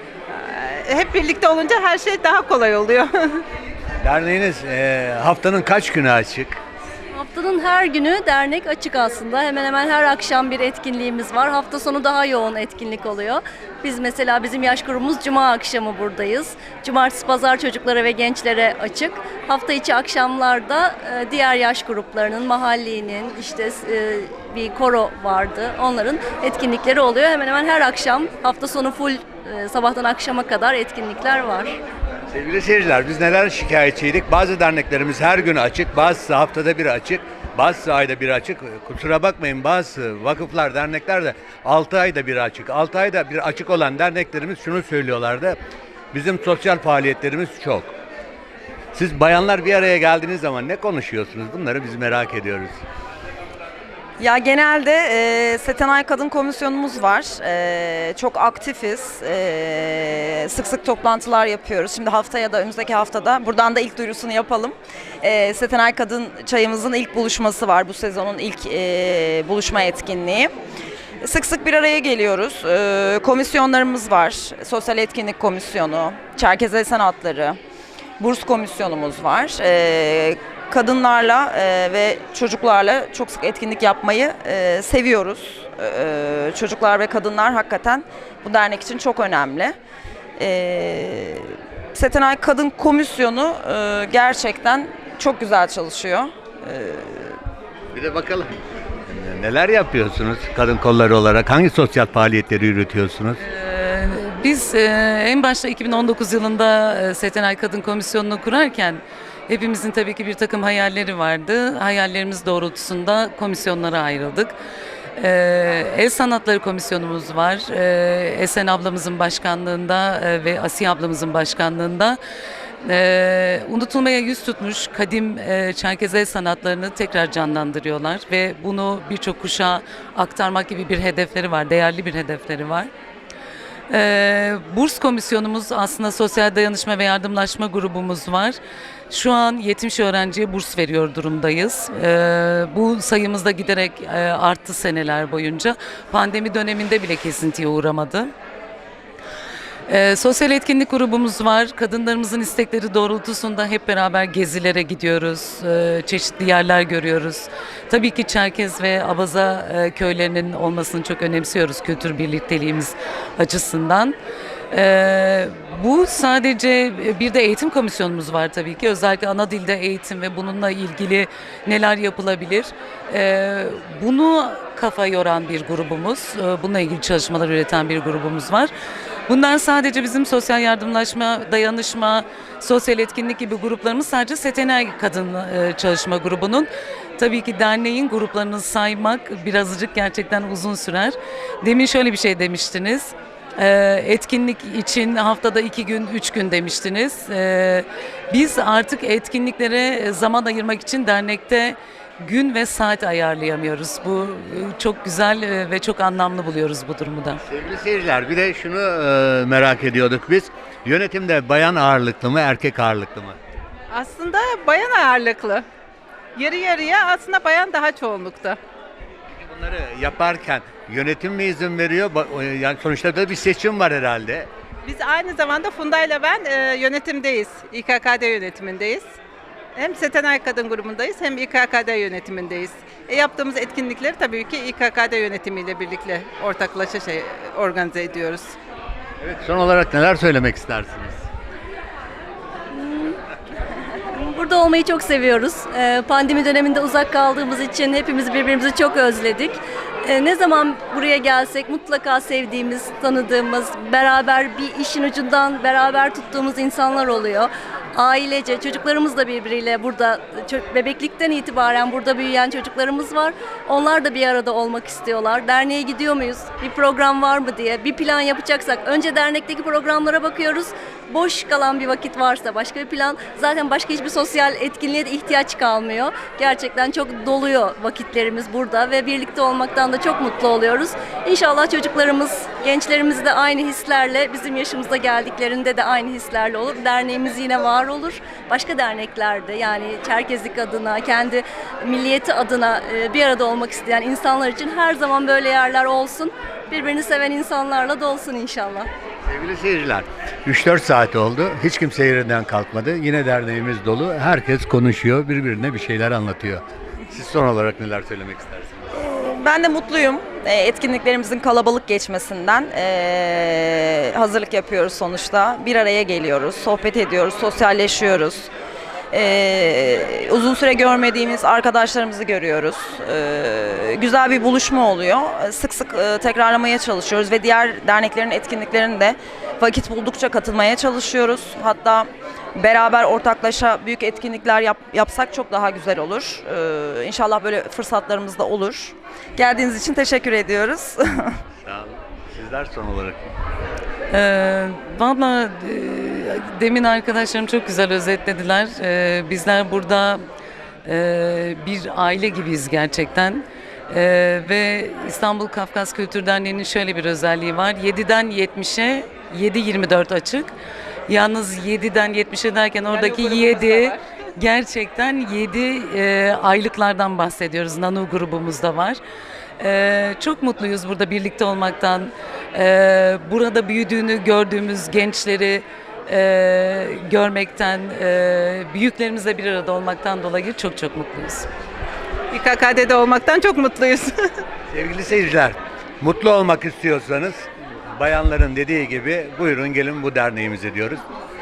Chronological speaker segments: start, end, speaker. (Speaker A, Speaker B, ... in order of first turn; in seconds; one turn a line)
Speaker A: 0.3-3.4
Speaker B: 4.0-6.6
Speaker C: 7.1-31.8
Speaker B: 32.3-45.6
Speaker B: 46.1-47.9
Speaker B: 48.9-52.8
Speaker D: 54.2-70.5
Speaker D: 71.2-77.6
Speaker D: 78.2-89.7
Speaker D: 90.4-97.4
Speaker B: 97.9-98.5
Speaker B: 99.1-103.4
Speaker E: 103.4-114.5
Speaker E: 115.2-122.2
Speaker E: 122.8-132.9
Speaker E: 133.9-138.6
Speaker E: 139.1-148.3
Speaker E: 149.9-164.2
Speaker E: 164.7-178.7
Speaker E: 179.3-207.4
Speaker B: 207.4-213.3
Speaker A: 213.9-215.6
Speaker A: 216.3-218.6
Speaker B: 219.4-224.5
Speaker A: 224.8-229.1
Speaker A: 229.8-238.6
Speaker B: 239.2-241.2
Speaker C: 242.7-243.2
Speaker C: 244.0-298.9
Speaker B: 299.2-308.9
Speaker D: 308.9-318.5
Speaker D: 319.1-341.4
Speaker B: 341.6-343.3
Speaker E: 344.1-350.2
Speaker E: 350.8-360.5
Speaker E: 361.1-369.0
Speaker A: 362.9-364.0
Speaker E: 369.6-381.5
Speaker A: 382.3-384.4
Speaker B: 384.7-391.0